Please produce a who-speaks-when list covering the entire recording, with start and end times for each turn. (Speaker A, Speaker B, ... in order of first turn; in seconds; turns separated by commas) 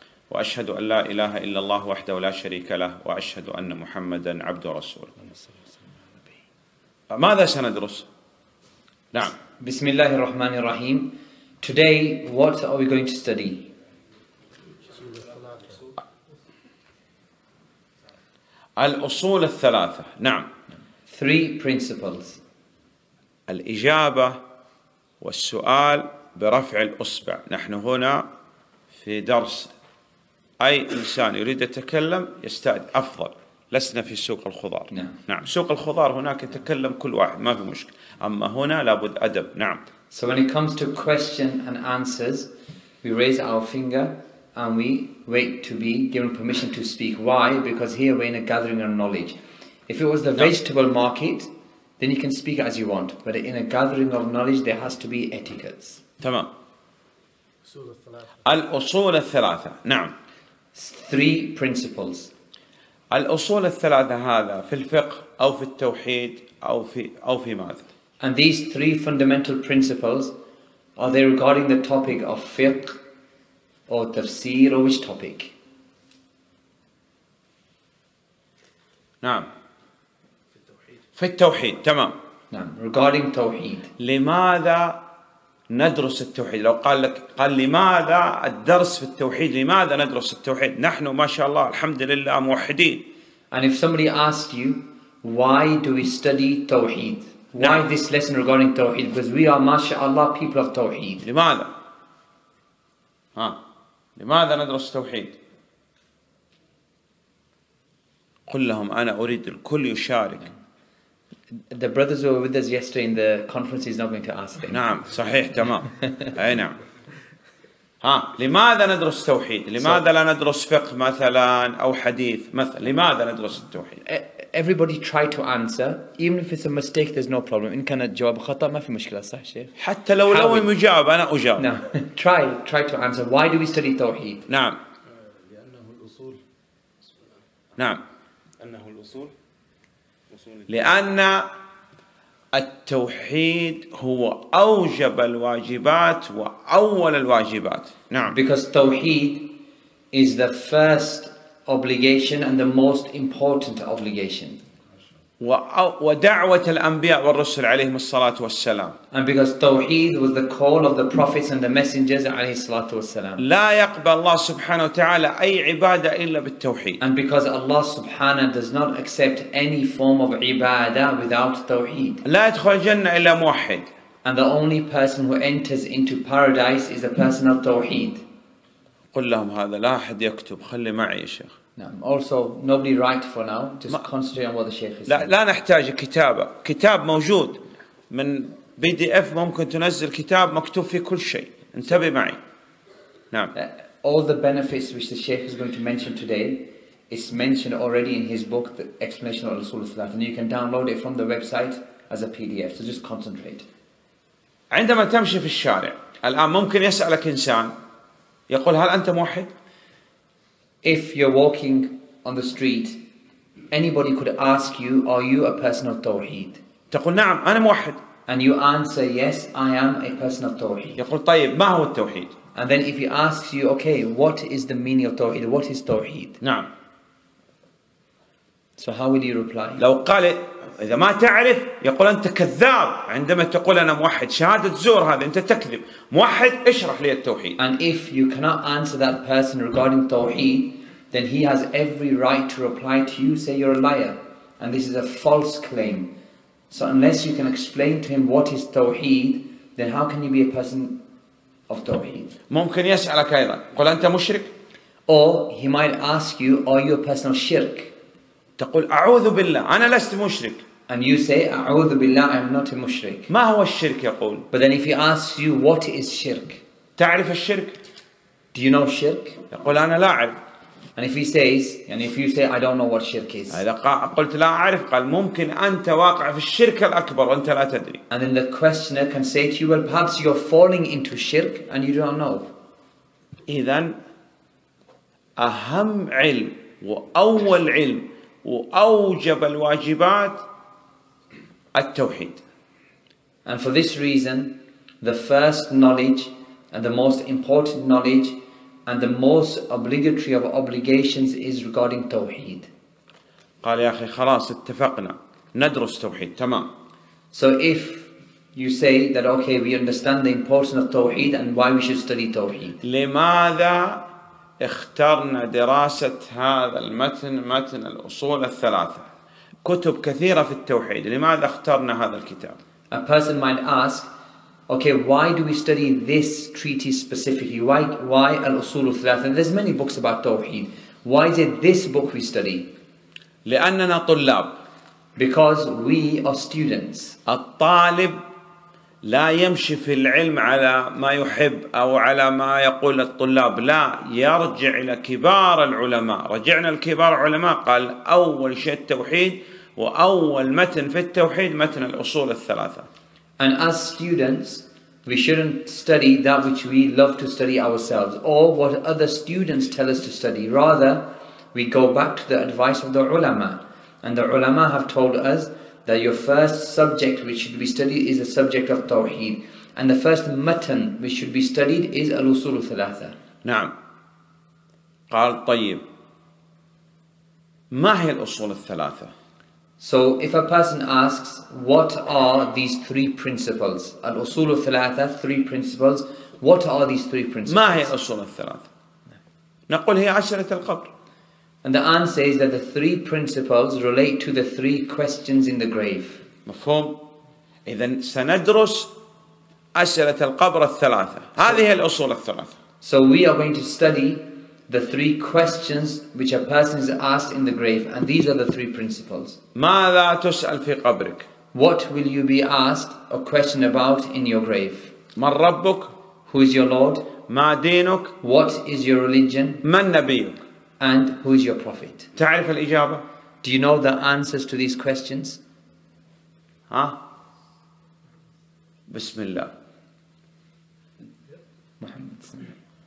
Speaker A: 0.3-5.1, Speaker B: 5.2-5.6, Speaker A: 7.1-8.1, Speaker B: 9.6-13.7, Speaker C: 14.9-15.8, Speaker A: 18.8-20.5, Speaker B: 21.1-22.4, Speaker A: 23.5-24.4, Speaker A: 25.2-28.2, Speaker A: 28.9-29.7, Speaker A: 30.6-39.8, Speaker B: 40.1-42.5, Speaker B: 43.0-56.0, Speaker A: 56.2-56.5, Speaker C: 57.6-58.3, Speaker A: 58.4-60.1, Speaker B: 60.7-62.3, Speaker A: 63.1-67.8, Speaker B: 68.2-70.3, Speaker B: 71.0-73.0, Speaker B: 73.9-75.5, Speaker A: 79.2-79.5, Speaker A: 81.2-82.1, Speaker B: 82.5-83.9, Speaker A: 84.0-85.0, Speaker A: 85.7-93.0, Speaker B: 93.5-101.2, Speaker A: 97.6-97.8, Speaker A: 101.2-101.7, Speaker A: 104.2-105.3, Speaker A: 108.5-110.5, Speaker B: 111.6-114.8, Speaker A: 114.7-116.8, Speaker A: 118.0-124.0, Speaker B: 124.0-129.7, Speaker A: 129.8-131.7, Speaker B: 130.2-130.7, Speaker B: 131.6-134.4, Speaker A: 134.5-134.8, Speaker C: 135.3-136.4, Speaker C: 138.6-139.3, Speaker C: 140.3-140.7, Speaker A: 140.7-141.5, Speaker A: 142.5-148.3, Speaker B: 148.3-149.6, Speaker B: 150.1-154.6, Speaker A: 155.4-158.9, Speaker B: 159.1-163.4, Speaker A: 163.4-167.0, Speaker B: 167.0-172.2, Speaker A: 172.2-173.9, Speaker B: 174.2-178.2, Speaker A: 179.1-181.5, Speaker B: 181.8-185.3, Speaker A: 185.1-192.4, Speaker B: 193.5-203.7, Speaker A: 204.7-207.7, Speaker A: 208.5-209.5, Speaker B: 210.8-213.0, Speaker B: 213.7-216.6, Speaker A: 216.9-218.0, Speaker B: 218.3-221.0, Speaker A: 221.0-222.3, Speaker B: 222.5-226.4, Speaker A: 226.4-226.7, Speaker B: 228.8-229.8, Speaker A: 229.8-237.6, Speaker B: 237.6-246.1, Speaker B: 246.7-251.0, Speaker B: 251.7-252.3, Speaker A: 252.5-254.5, Speaker B: 255.1-257.9, Speaker A: 258.6-260.6, Speaker B: 260.9-263.3, Speaker A: 263.3-264.5, Speaker B: 264.5-266.6, Speaker A: 267.0-267.8, Speaker B: 268.5-269.4, Speaker A: 269.5-270.4, Speaker B: 270.9-273.6, Speaker A: 273.5-278.0, Speaker B: 278.1-282.5, Speaker A: 283.5-284.0, Speaker A: 285.4-290.4, Speaker A: 291.7-292.4, Speaker B: 293.4-302.7, Speaker A: 303.6-306.7, Speaker B: 307.3-312.8, Speaker A: 312.8-314.0, Speaker A: 314.6-319.1, Speaker A: 319.6-322.6, Speaker B: 322.9-324.1, Speaker B: 324.7-332.7, Speaker A: 333.4-334.5, Speaker B: 335.2-337.2, Speaker A: 337.2-338.2, Speaker A: 339.0-352.9, Speaker B: 353.4-373.1, Speaker A: 373.4-373.7, Speaker A: 375.1-375.8, Speaker A: 377.7-379.1, Speaker B: 379.8-387.9, Speaker A: 387.4-388.7, Speaker A: 389.7-390.9, Speaker B: 391.6-396.2, Speaker A: 396.4-397.0, Speaker A: 397.6-398.9, Speaker A: 399.7-402.5, Speaker B: 402.8-409.4, Speaker A: 409.5-411.3, Speaker B: 411.5-414.9, Speaker A: 415.1-415.9, Speaker B: 416.2-417.1, Speaker A: 417.2-418.1, Speaker B: 418.2-419.6, Speaker A: 419.6-420.4, Speaker B: 420.8-422.1, Speaker A: 422.1-423.0, Speaker B: 423.4-425.4, Speaker A: 426.7-427.0, Speaker A: 428.9-429.5, Speaker B: 431.8-432.5